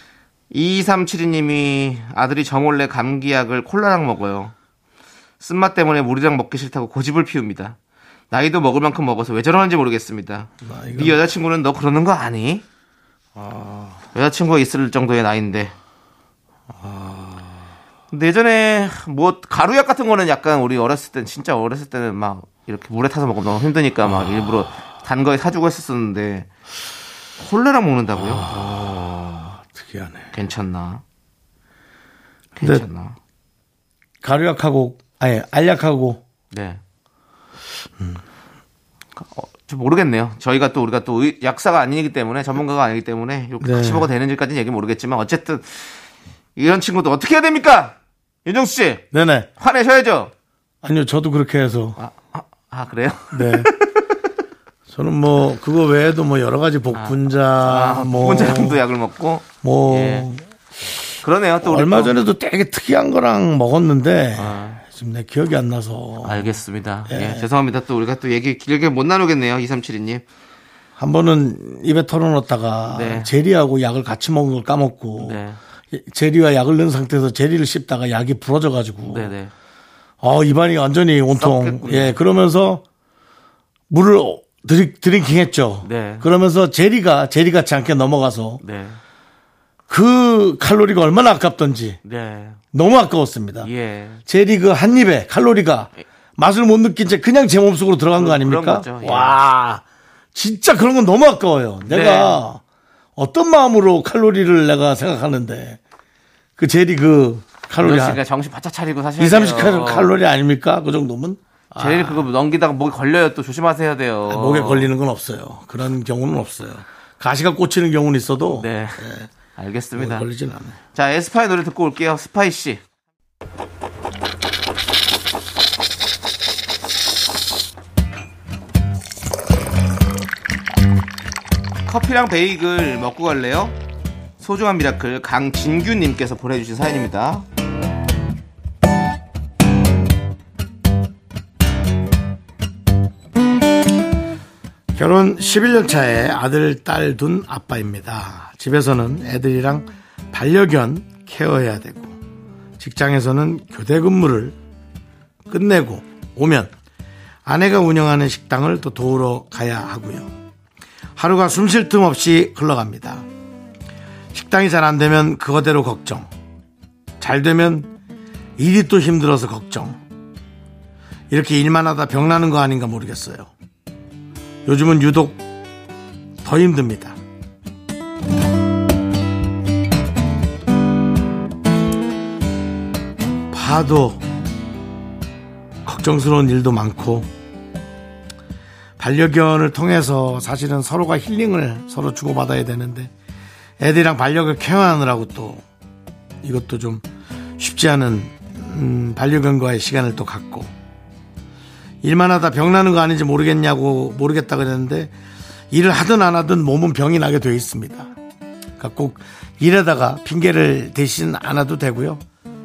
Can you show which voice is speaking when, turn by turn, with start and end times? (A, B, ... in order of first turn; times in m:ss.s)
0:00.5-0:04.5 A
0:05.4-0:07.8 A
0:08.3-0:12.6 A
0:10.6-0:11.2 B
0:13.4-0:14.0 B
0:14.1-0:15.7 A
0:16.8-0:17.5 B
0:18.1-0:26.5 A
0:27.4-0:28.6 A
0:28.2-0:30.3 B
0:30.3-0:31.0 A
0:32.6-0:33.2 A
0:32.6-0:32.8 B
0:34.2-0:36.2 B
0:36.5-0:36.8 A
0:39.2-0:45.9 A
0:43.6-0:44.1 B
0:46.6-0:49.0 A
0:49.1-0:49.5 B
0:49.6-0:50.3 A
0:50.8-0:52.0 B
0:52.0-0:54.0 A
0:53.3-0:53.7 B
0:54.9-0:58.8 B
0:56.9-1:00.2 A
0:59.6-1:00.4 B
1:01.2-1:02.2 A
1:01.6-1:06.5 B
1:04.4-1:04.8 A
1:06.2-1:10.2 A
1:07.1-1:07.4 B
1:11.0-1:15.4 B
1:12.9-1:13.3 A
1:15.2-1:15.6 A
1:15.9-1:19.3 B
1:19.1-1:19.5 A
1:20.2-1:22.8 B
1:21.4-1:22.2 A
1:23.9-1:28.6 B
1:25.8-1:26.3 A
1:28.6-1:29.0 A
1:29.9-1:32.0 B
1:32.0-1:32.6 A
1:32.7-1:33.7 B
1:33.6-1:34.2 A
1:34.2-1:39.8 B
1:38.2-1:39.4 A
1:40.3-1:42.6 B
1:41.9-1:42.4 A
1:43.2-1:45.8 B
1:46.6-1:48.2 B
1:47.8-1:50.1 A
1:49.2-1:52.3 B
1:51.8-1:54.9 A
1:54.3-1:59.3 B
1:58.5-2:00.2 A
1:59.9-2:00.8 B
2:00.9-2:02.8 A
2:11.9-2:13.8 A
2:14.4-2:17.4 A
2:24.9-2:32.2 B
2:32.8-2:34.6 B
2:35.5-2:36.7 B
2:37.4-2:40.3 B
2:41.2-2:43.2 B
2:44.3-2:46.3 B
2:47.2-2:47.9 B
2:48.6-2:50.0 B
2:51.3-2:53.5 B
2:54.6-2:55.4 B
2:56.4-2:57.2 B
3:03.5-3:04.2 B
3:05.8-3:07.3 B
3:09.0-3:13.1 B
3:13.8-3:15.6 B
3:16.4-3:17.0 B
3:17.6-3:20.7 B
3:22.0-3:25.1 B
3:25.7-3:28.1 B
3:28.8-3:32.2 B